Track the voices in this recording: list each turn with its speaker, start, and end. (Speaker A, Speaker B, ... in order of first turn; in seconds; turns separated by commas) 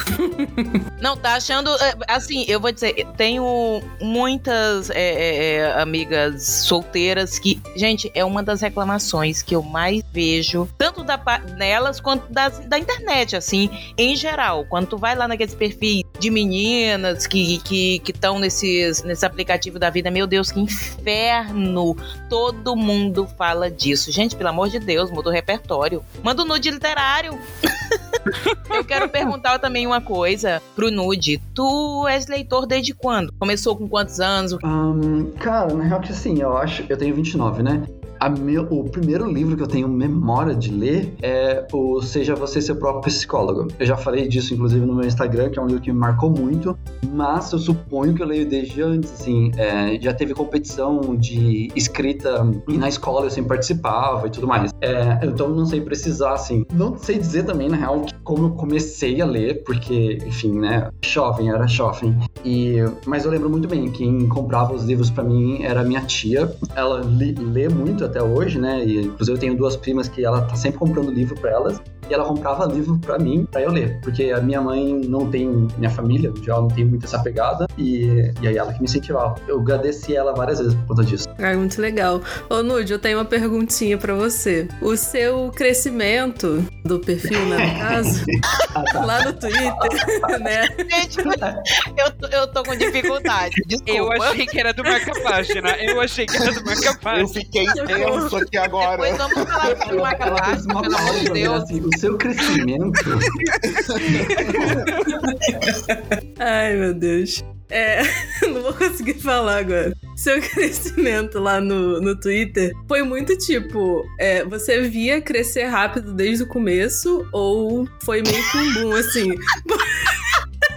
Speaker A: 0.1-0.8, Speaker B: 1.0-27.4, Speaker C: 28.5-29.1, Speaker B: 28.7-34.6, Speaker D: 34.6-81.3, Speaker A: 81.4-88.3, Speaker D: 87.3-90.5, Speaker A: 88.9-90.9, Speaker B: 90.8-94.4, Speaker D: 91.2-91.6, Speaker C: 93.9-97.3, Speaker E: 97.1-100.1, Speaker A: 97.7-98.4, Speaker B: 98.8-101.7, Speaker D: 99.6-103.4, Speaker E: 103.7-104.7, Speaker A: 104.0-120.2, Speaker D: 104.4-104.8